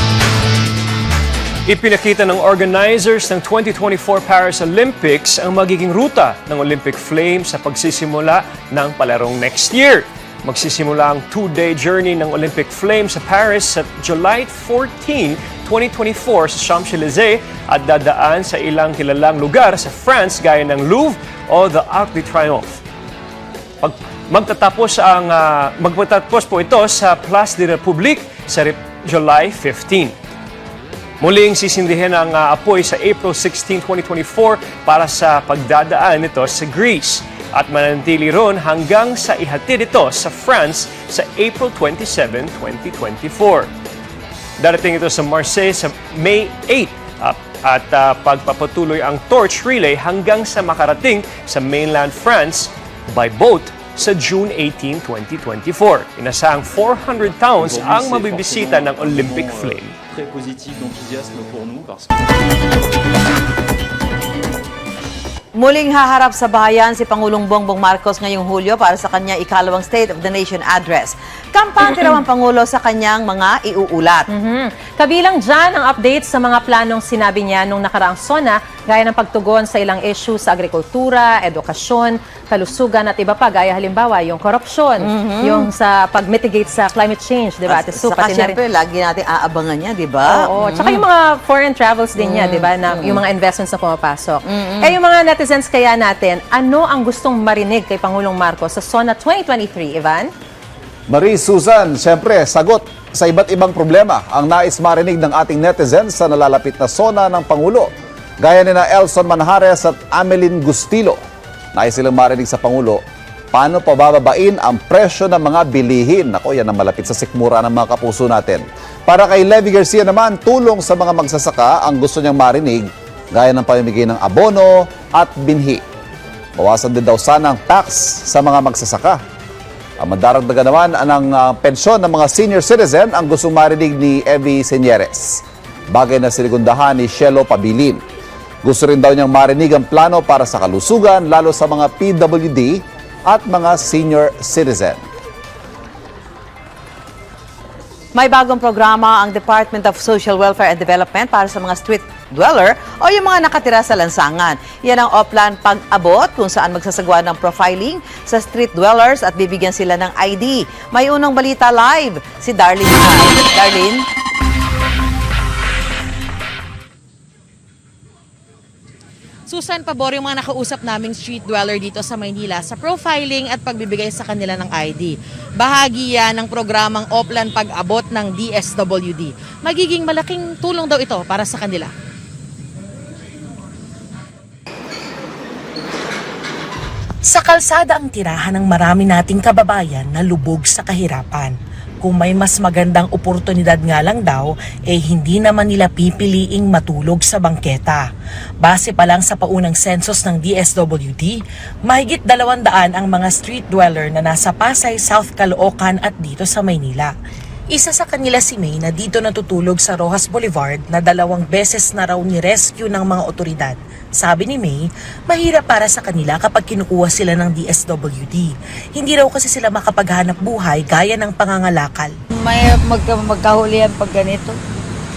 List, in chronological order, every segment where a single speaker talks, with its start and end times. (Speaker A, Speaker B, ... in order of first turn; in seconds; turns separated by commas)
Speaker A: 1.7-22.8, Speaker A: 23.8-30.1, Speaker A: 31.2-43.7, Speaker A: 44.6-60.0, Speaker B: 57.6-62.3, Speaker C: 65.6-74.3, Speaker D: 74.3-88.6, Speaker C: 85.0-85.7, Speaker C: 87.7-91.0, Speaker D: 90.3-100.3, Speaker C: 92.2-93.2, Speaker C: 94.5-95.0, Speaker E: 101.1-111.2, Speaker E: 111.8-113.0, Speaker E: 113.5-125.8, Speaker E: 126.6-129.2, Speaker E: 130.0-138.0, Speaker E: 138.6-145.0, Speaker C: 148.2-164.1, Speaker F: 169.5-181.9, Speaker G: 187.3-198.1, Speaker G: 198.6-207.1, Speaker G: 207.7-222.1, Speaker H: 222.3-224.5